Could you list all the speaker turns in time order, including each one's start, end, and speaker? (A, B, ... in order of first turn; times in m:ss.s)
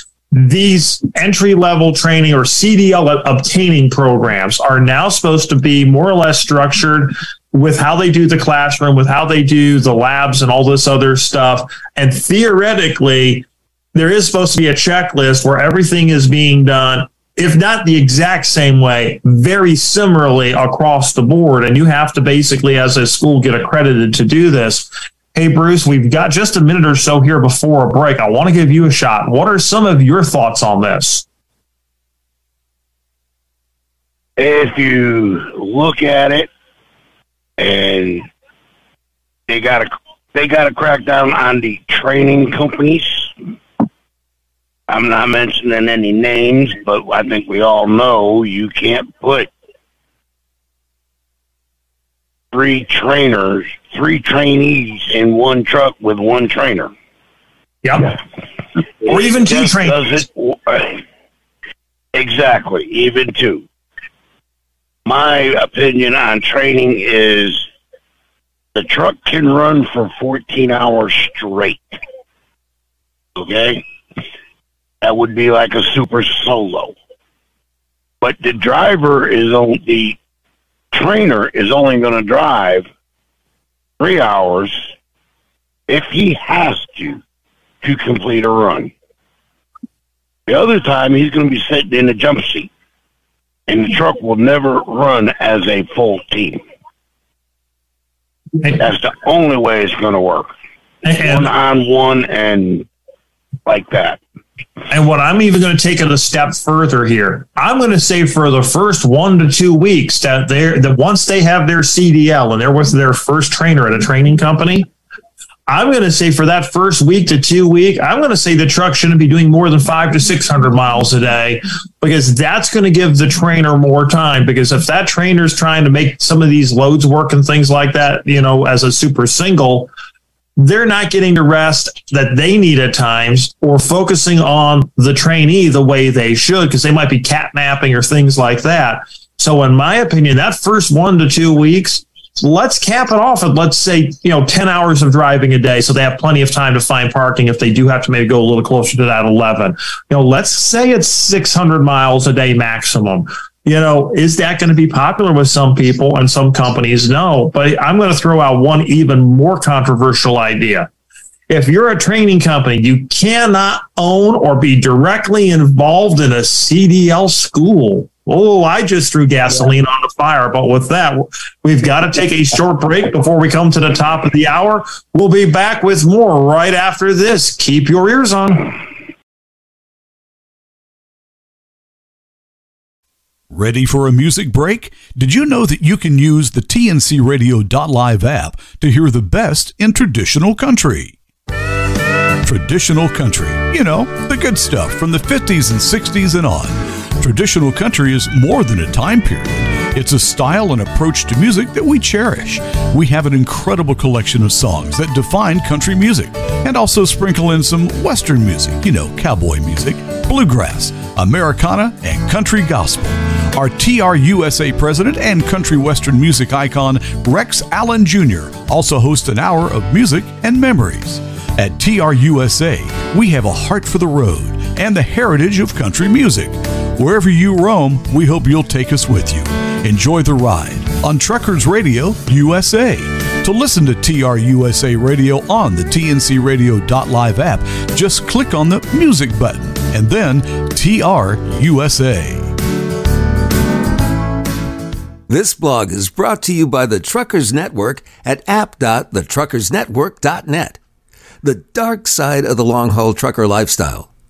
0:00.3-0:31.2 A
0:34.4-0:36.5 B
0:37.6-0:38.3 B
0:39.5-0:43.3 B
0:44.9-0:49.5 B
0:52.5-0:56.9 B
0:57.8-0:58.2 A
0:59.0-1:01.0 B
0:59.1-1:00.0 A
1:02.1-1:03.7 B
1:05.1-1:07.7 B
1:08.8-1:12.0 B
1:13.4-1:13.8 B
1:15.0-1:17.0 B
1:18.2-1:20.2 B
1:20.9-1:22.9 B
1:24.0-1:24.9 B
1:25.9-1:27.2 B
1:27.8-1:28.9 B
1:30.5-1:32.7 B
1:33.7-1:36.6 B
1:38.7-1:40.5 B
1:41.0-1:41.5 A
1:41.2-1:42.9 B
1:43.7-1:44.2 B
1:44.9-1:54.9 A
1:55.7-2:09.9 A
2:10.6-2:40.9 A
2:41.5-2:58.7 A
3:03.5-3:11.2 C
3:12.4-4:02.5 C
4:05.3-4:10.8 D
4:11.4-4:14.1 D